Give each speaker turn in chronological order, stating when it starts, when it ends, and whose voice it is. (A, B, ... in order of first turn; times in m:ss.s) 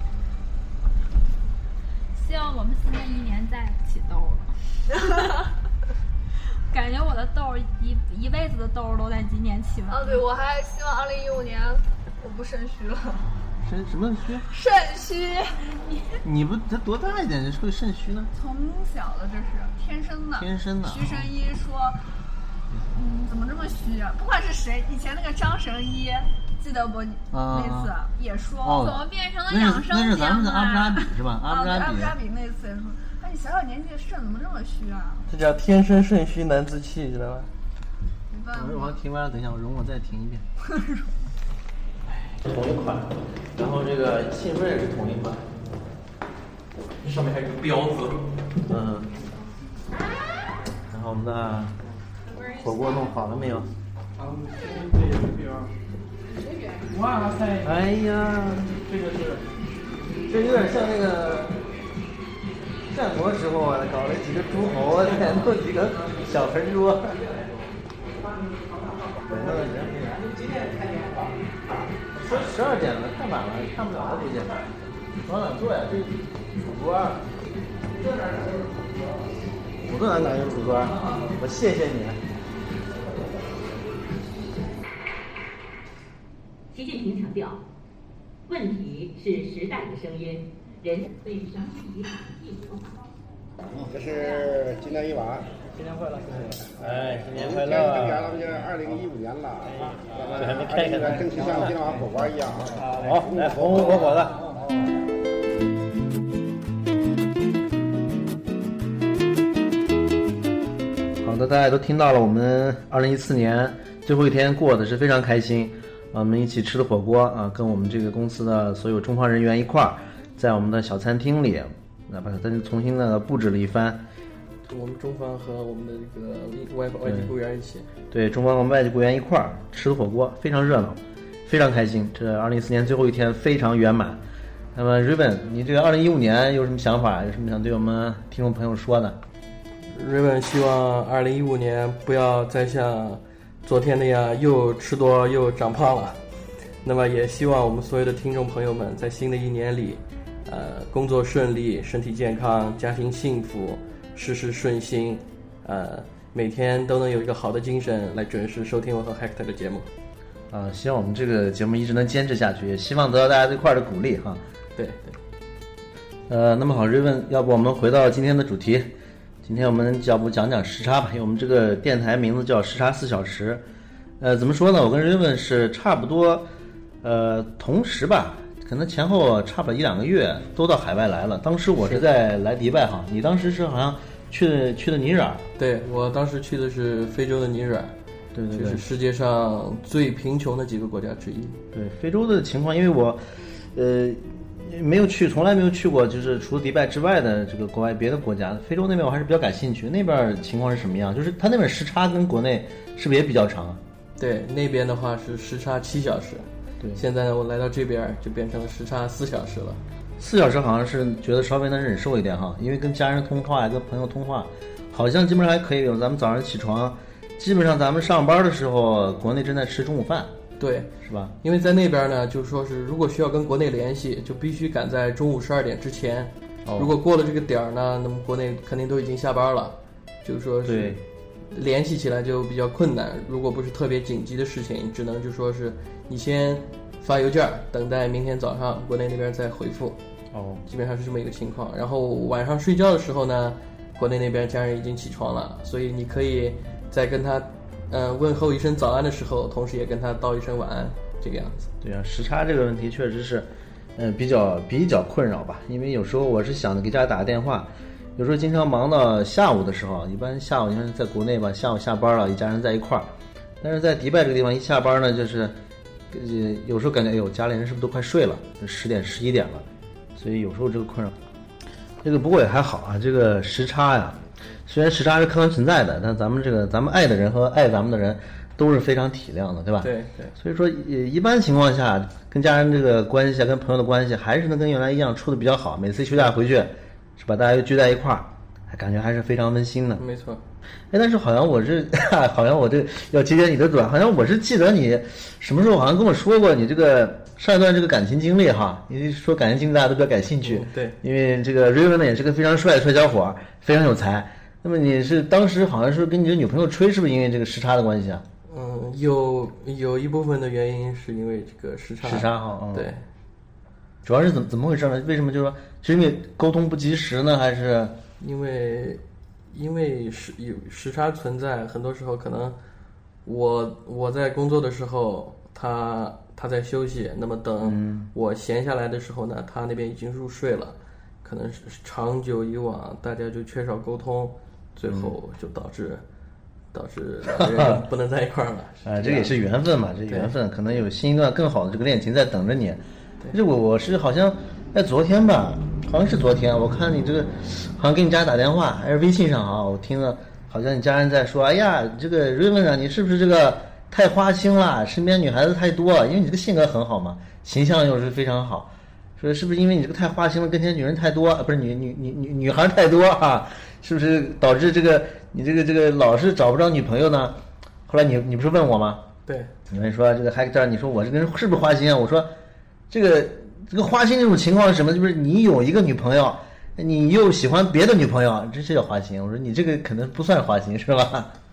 0:02.1-0:04.5 A
0:06.7-0:10.2 A
0:09.9-0:13.3 B
0:13.6-0:14.5 C
0:14.5-0:15.8 B
0:16.2-0:18.3 C
0:18.3-0:22.0 B
0:20.4-0:21.3 C
0:22.9-0:29.0 B
0:27.3-0:27.9 C
0:28.6-0:32.1 C
0:28.8-0:31.1 A
0:31.4-0:35.3 B
0:35.3-0:37.5 D
0:38.3-0:39.0 B
0:38.5-0:40.4 C
0:40.7-0:41.1 B
0:42.4-0:45.4 C
0:47.0-0:48.2 D
0:48.7-0:49.1 C
0:50.9-0:51.8 C
0:52.5-0:53.7 C
0:57.6-0:59.2 C
1:00.3-1:01.5 C
1:02.9-1:07.2 C
1:09.2-1:10.4 C
1:12.1-1:14.6 C
1:15.2-1:17.2 C
1:19.8-1:22.2 C
1:26.8-1:27.6 E
1:28.5-1:32.8 E
1:33.9-1:35.4 F
1:35.8-1:39.1 C
1:39.7-1:44.9 C
1:41.0-1:42.0 F
1:51.2-2:04.0 C
2:04.6-2:07.9 D
2:07.0-2:07.3 C
2:08.1-2:14.2 C
2:14.8-2:19.2 C
2:19.9-2:26.2 D
2:26.8-2:39.9 D
2:40.5-2:44.4 C
2:44.8-2:45.2 D
2:46.3-2:48.9 C
2:49.4-2:53.6 C
2:54.2-2:56.5 C
2:57.0-3:05.4 C
3:05.6-3:07.9 D
3:08.3-3:08.8 C
3:08.5-3:11.6 D
3:11.7-3:23.8 C
3:24.2-3:29.8 D
3:30.2-3:40.3 C
3:40.6-3:51.0 D
3:41.0-3:41.3 C
3:46.7-3:47.0 C
3:50.6-3:51.0 C
3:51.5-4:00.0 D
4:00.3-4:00.6 C
4:00.7-4:11.7 D
4:11.8-4:23.1 C
4:23.6-4:25.6 C
4:26.1-4:29.6 C
4:30.2-4:31.1 C
4:32.0-4:50.0 C
4:39.8-4:40.3 D
4:50.0-4:50.4 D
4:50.9-5:08.2 C
5:00.4-5:01.0 D
5:08.5-5:13.0 D
5:12.0-5:12.9 C
5:14.0-5:17.9 C
5:18.2-5:22.6 D
5:23.2-5:36.0 D
5:27.6-5:28.1 C
5:36.7-5:39.3 D
5:37.3-5:37.8 C
5:38.8-6:07.3 C
6:07.9-6:09.0 C
6:09.2-6:09.5 D
6:09.7-6:12.3 C
6:12.9-6:21.3 C